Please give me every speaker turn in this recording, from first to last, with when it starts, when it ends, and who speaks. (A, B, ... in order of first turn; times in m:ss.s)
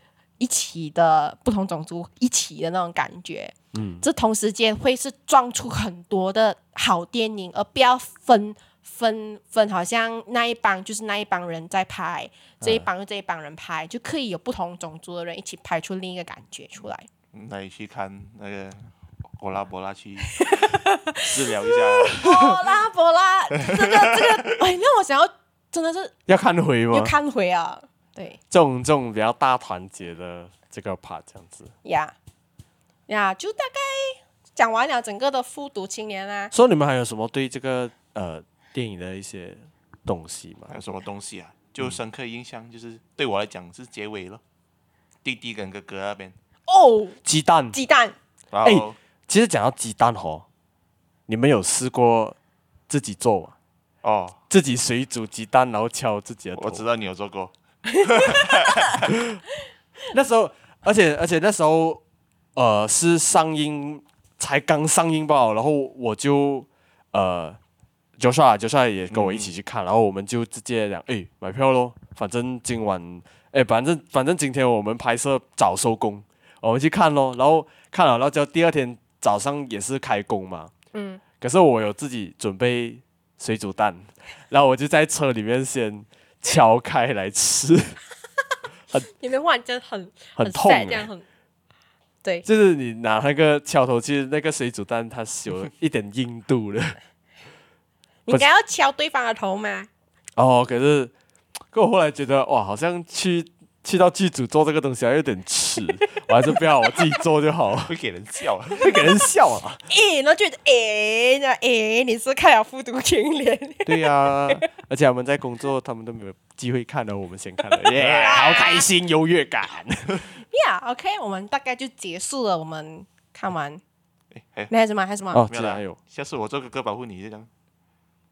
0:00.4-0:17.1 A
0:03.7-0:04.0 B
0:12.6-0:12.9 B
0:17.3-0:22.3 C
0:20.3-0:26.2 A
0:23.6-0:24.5 C
0:26.3-0:27.1 B
0:26.9-0:28.4 A
0:28.5-0:31.7 B
0:31.8-0:32.1 A
0:33.1-0:36.5 A
0:36.5-0:40.7 B
0:40.7-0:44.4 C
0:45.2-0:46.3 C
0:46.7-0:47.2 A
0:47.2-0:47.8 B
0:47.7-0:48.1 A
0:48.5-0:49.0 C
0:48.6-0:50.4 B
0:51.3-0:52.4 B
0:52.9-0:53.5 B
0:54.0-0:54.4 C
0:54.5-0:56.8 B
0:56.6-0:59.0 C
0:57.9-0:58.8 A
0:59.1-0:59.4 B
1:00.1-1:02.0 B
1:02.6-1:07.6 B
1:08.2-1:20.7 B
1:09.1-1:09.5 C
1:20.9-1:21.2 A
1:21.4-1:28.0 B
1:29.2-1:31.2 A
1:30.4-1:31.1 B
1:32.4-1:37.0 B
1:38.3-1:39.9 A
1:40.4-1:41.1 B
1:41.7-1:47.9 B
1:47.9-1:49.0 C
1:48.7-1:49.8 B
1:49.9-1:54.6 A
1:53.8-2:00.3 B
1:58.0-1:58.6 C
1:58.2-1:58.9 A
2:00.5-2:03.8 A
2:04.3-2:04.7 C
2:04.7-2:05.4 A
2:05.3-2:06.0 B
2:05.5-2:07.5 C